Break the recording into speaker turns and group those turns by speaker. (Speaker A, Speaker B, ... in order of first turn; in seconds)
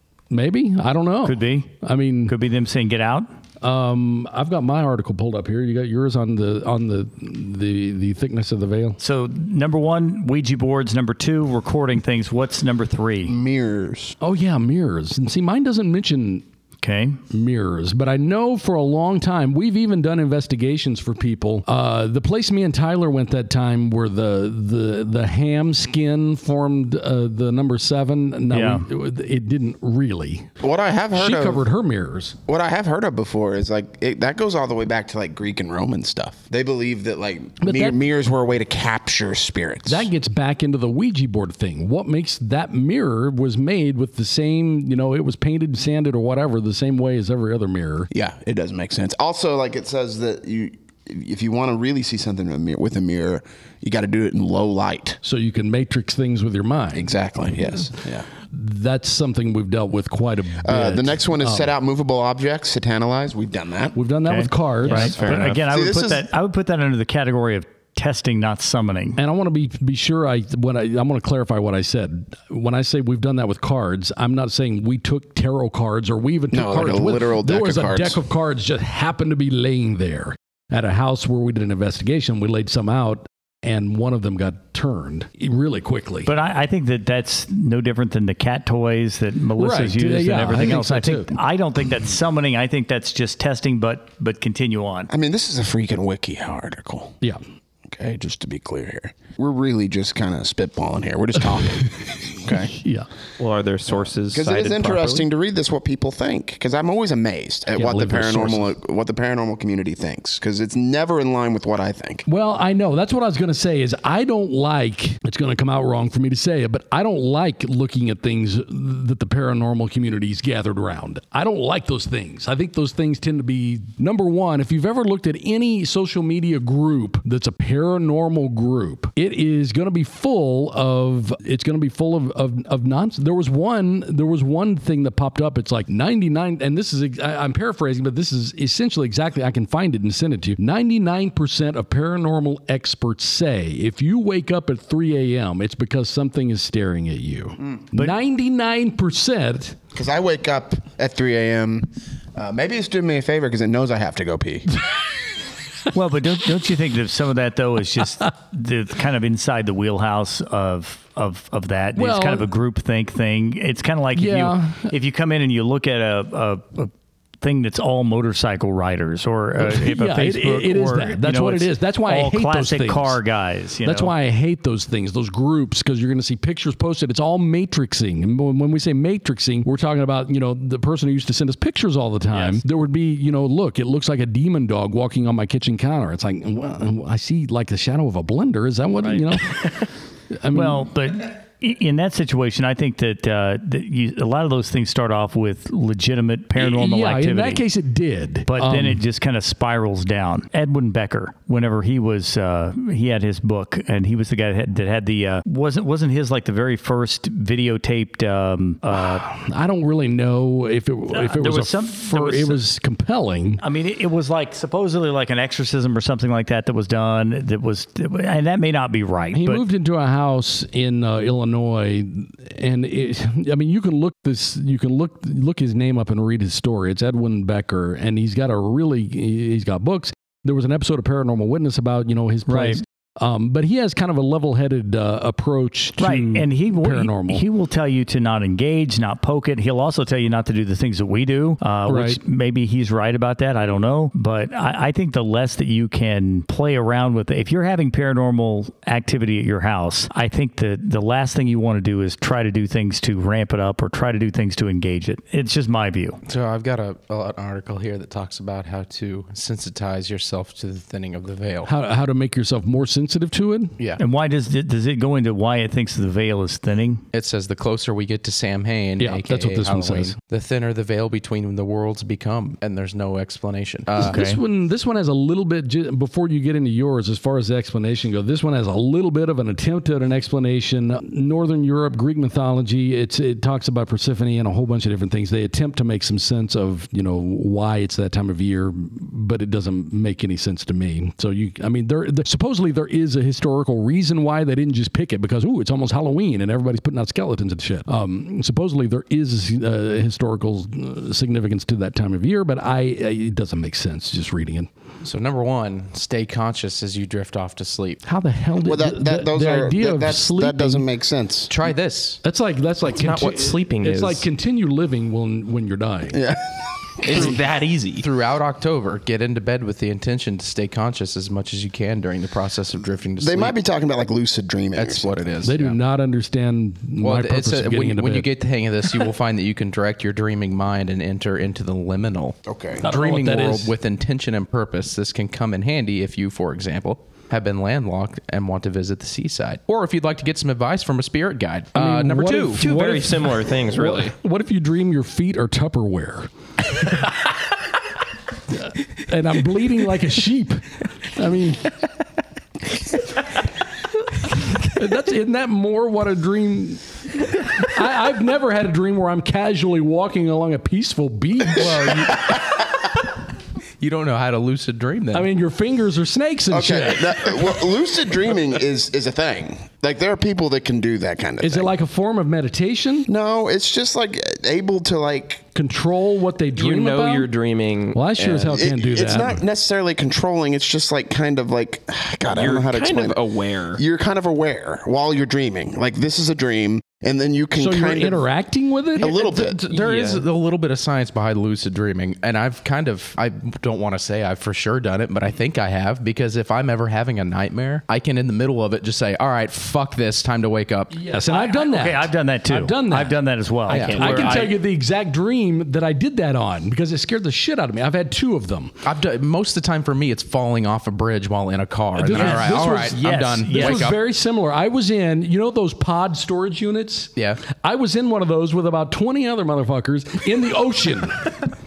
Speaker A: 0.3-2.3, 3.6-9.0, 14.2-16.4, 17.3-30.5, 31.1-32.4, 37.6-38.0, 39.9-48.1, 55.2-57.1, 58.5-61.7, 63.9-65.2, 69.2-86.3, 89.5-91.3, 101.8-103.1, 107.7-108.7, 112.2-149.8, 161.9-162.5, 164.1-164.9, 169.6-173.2, 173.8-189.8, 190.3-190.9, 196.6-199.0, 208.9-213.6, 219.3-237.4, 241.9-242.2, 261.6-263.7, 269.0-270.1, 273.9-304.7, 308.0-310.9, 312.2-316.2, 325.4-328.3, 332.8-333.7, 341.7-346.3, 348.5-351.7, 354.6-362.3, 365.1-367.4, 371.4-373.1, 375.5-377.3, 377.9-379.4, 387.6-389.3, 400.9-408.7, 411.9-421.4
Speaker B: 1.2-1.7, 2.3-3.3, 9.0-13.3, 16.8-17.2, 28.5-28.9, 64.2-69.2, 86.2-95.1, 155.9-174.1, 182.3-182.6, 189.1-189.6, 190.5-197.6, 198.5-209.2, 211.1-212.6, 213.6-219.6, 232.5-232.8, 236.0-256.2, 264.0-267.0, 274.0-274.4, 401.2-404.5, 412.1-413.9
Speaker C: 13.2-14.2, 30.6-31.6, 32.5-40.1, 48.1-55.2, 56.9-58.2, 60.6-64.0, 65.1-66.3, 76.5-78.2, 95.1-97.2, 97.9-102.7, 104.3-112.2, 149.9-154.7, 308.6-311.5, 316.1-317.2, 323.2-325.2, 332.4-332.9, 366.5-371.7, 373.1-375.4, 378.2-388.3, 389.0-389.6
Speaker D: 64.9-65.4, 103.4-105.3, 312.9-314.3, 317.0-318.1, 342.5-344.1, 376.5-378.1, 382.3-383.8, 389.6-390.2
Speaker E: 256.2-261.7, 267.1-274.2, 305.0-308.0, 311.5-312.2, 318.0-323.6, 324.7-325.8, 327.0-342.6, 363.8-365.3, 389.3-401.0, 403.7-404.5, 408.8-414.0, 417.1-417.4